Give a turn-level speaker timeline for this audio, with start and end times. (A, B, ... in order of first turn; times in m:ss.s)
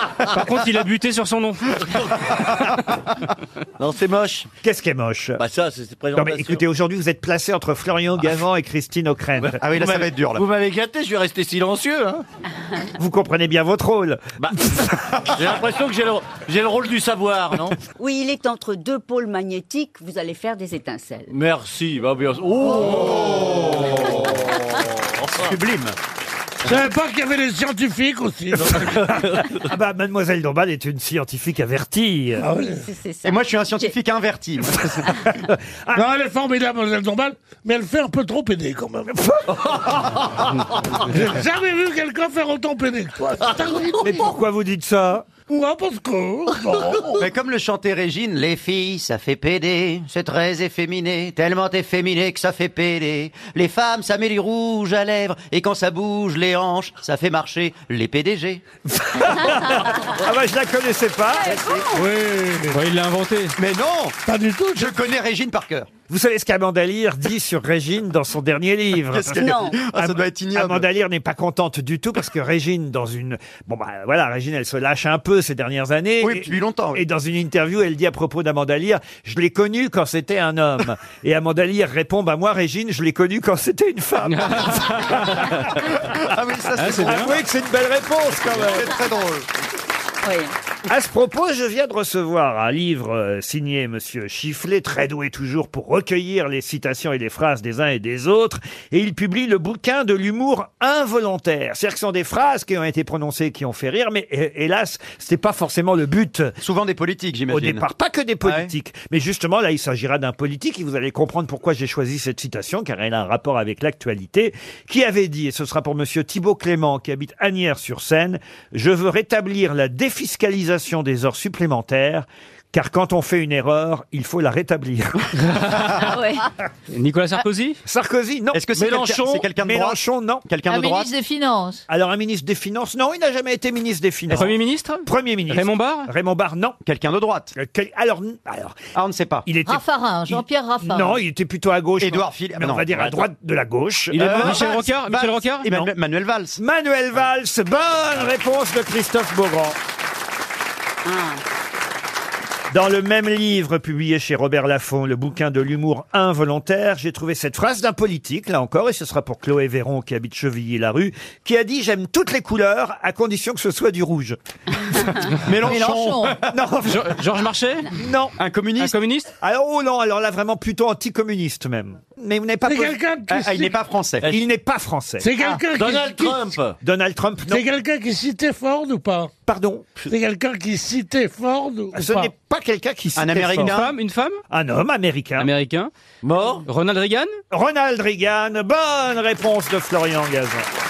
0:00.2-0:02.0 A
0:03.8-0:04.5 B
0:04.6-0:05.4 C
0:05.4-0:06.6 B
0:06.1-0:09.6 C
0:09.6-0:10.4 D
0:09.7-0:12.2 B
0:13.0-0:14.8 C
0:15.3-0:17.8 B
0:18.0-0:21.3 E
0:21.3-0:24.5 B
0:25.2-0:25.6 B
0:25.4-0:25.9 D
0:26.6-0:29.0 F
0:29.2-0:29.4 B
0:29.7-0:32.5 C
0:32.4-0:32.8 F
0:32.8-0:33.8 E
0:33.2-0:35.1 D
0:35.4-0:36.0 C
0:35.9-0:39.1 F
0:39.3-0:40.2 C
0:41.0-0:44.3 F
0:44.0-0:45.3 C
0:45.5-0:47.2 F
0:47.2-0:58.6 D
0:59.0-1:01.8 C
1:01.4-1:02.0 E
1:02.0-1:02.8 F
1:02.6-1:03.5 A
1:03.6-1:04.2 D
1:04.2-1:05.0 F
1:04.7-1:05.9 D
1:06.1-1:25.7 C
1:09.1-1:10.9 D
1:09.4-1:09.8 E
1:16.2-1:17.0 D
1:24.2-1:25.5 A
1:26.1-1:27.3 D
1:26.7-1:27.4 A
1:27.0-1:28.9 C
1:28.5-1:29.5 D
1:30.2-1:30.5 E
1:30.9-1:46.5 C
1:46.6-1:47.8 D
1:47.5-2:05.3 C
1:48.4-1:48.7 D
2:05.5-2:06.1 A
2:05.9-2:06.5 E
2:06.9-2:07.8 A
2:07.8-2:08.6 C
2:08.5-2:11.1 D
2:08.8-2:09.5 B
2:09.6-2:10.4 C
2:10.7-2:11.8 G
2:11.9-2:16.8 C
2:14.3-2:16.1 A
2:16.8-2:17.5 D
2:17.6-2:18.8 C
2:18.9-2:19.4 D
2:19.4-2:24.8 C
2:19.6-2:21.2 G
2:22.0-2:23.2 D
2:24.1-2:25.7 A
2:24.2-2:26.6 D
2:26.6-2:29.8 C
2:31.0-2:31.4 E
2:32.7-2:44.4 C
2:45.4-2:46.4 D
2:45.6-2:46.3 G
2:46.5-2:47.1 C
2:46.8-2:47.9 A
2:48.0-2:48.3 C
2:48.4-2:49.0 D
2:48.8-2:49.3 A
2:49.4-2:53.0 C
2:52.6-2:53.8 F
2:53.3-2:54.3 D
2:54.3-2:55.3 C
2:55.2-2:56.6 F
2:55.7-2:56.8 B
2:56.8-2:57.6 C
2:57.4-2:59.3 F
2:59.4-2:59.8 C
3:00.1-3:02.3 F
3:01.9-3:03.8 C
3:03.2-3:03.9 D
3:03.7-3:04.4 A
3:04.5-3:05.5 C
3:05.4-3:05.9 A
3:06.2-3:06.6 B
3:06.6-3:07.3 A
3:07.5-3:10.6 C